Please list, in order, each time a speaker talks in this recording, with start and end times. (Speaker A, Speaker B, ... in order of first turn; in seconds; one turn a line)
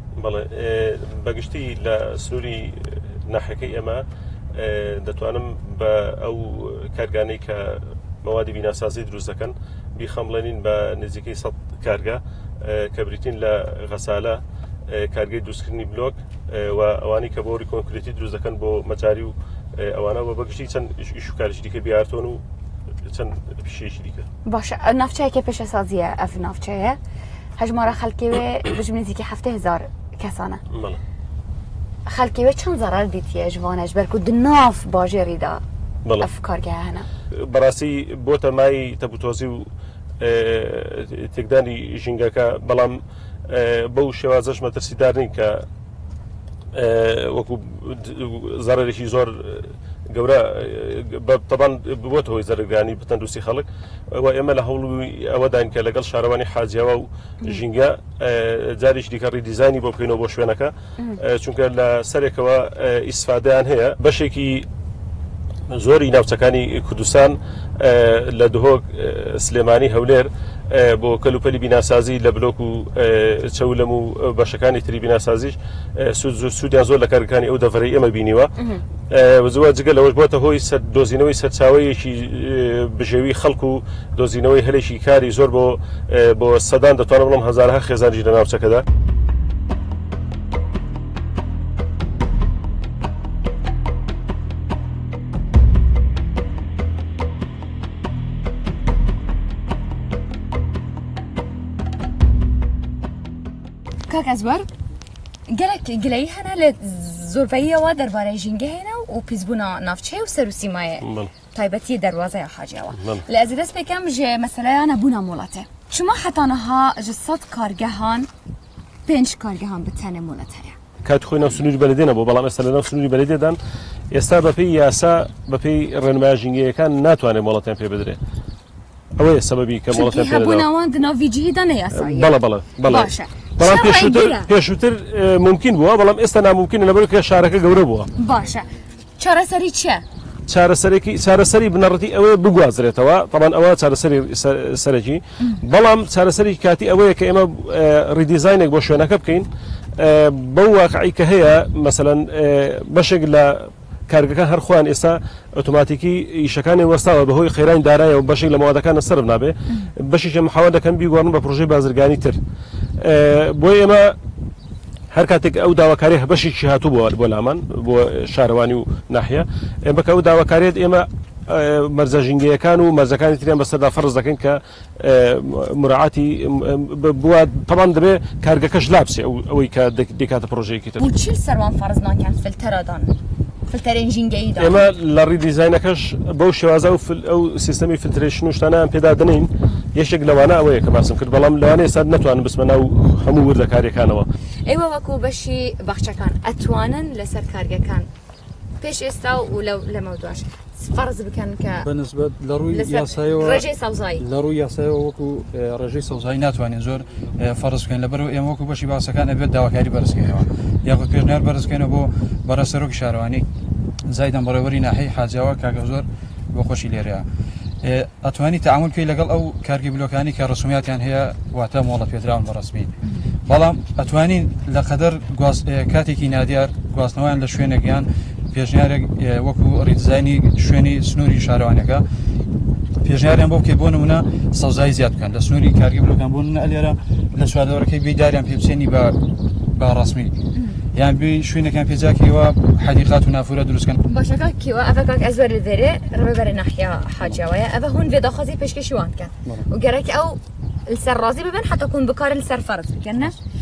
Speaker A: 0.1-4.0
Speaker A: 4.5-22.4
Speaker A: 23.1-24.2
Speaker B: 24.4-27.0
Speaker B: 27.6-30.6
Speaker A: 30.7-31.0
Speaker B: 32.1-35.6
Speaker B: 36.2-37.0
Speaker A: 37.4-39.6
Speaker A: 40.2-45.6
Speaker A: 46.7-64.7
Speaker A: 65.7-78.5
Speaker A: 79.1-88.8
Speaker B: 104.1-104.7
Speaker B: 105.5-118.3
Speaker A: 111.0-111.3
Speaker B: 119.1-120.8
Speaker A: 121.0-123.6
Speaker A: 124.1-128.2
Speaker A: 129.2-130.7
Speaker B: 129.9-134.5
Speaker A: 132.0-138.1
Speaker B: 138.2-138.7
Speaker B: 139.2-140.0
Speaker A: 140.5-149.5
Speaker A: 150.0-162.4
Speaker A: 163.0-164.1
Speaker A: 165.1-181.1
Speaker B: 181.0-183.1
Speaker B: 183.7-184.9
Speaker A: 184.6-194.3
Speaker B: 194.7-198.1
Speaker B: 198.8-201.9
Speaker C: 201.8-203.7
Speaker B: 202.7-204.2
Speaker C: 204.2-213.4
Speaker C: 214.1-217.2
Speaker C: 217.8-222.9
Speaker C: 223.4-232.0
Speaker C: 233.0-239.2
Speaker C: 239.7-240.3
Speaker C: 240.9-244.0
Speaker B: 244.1-253.3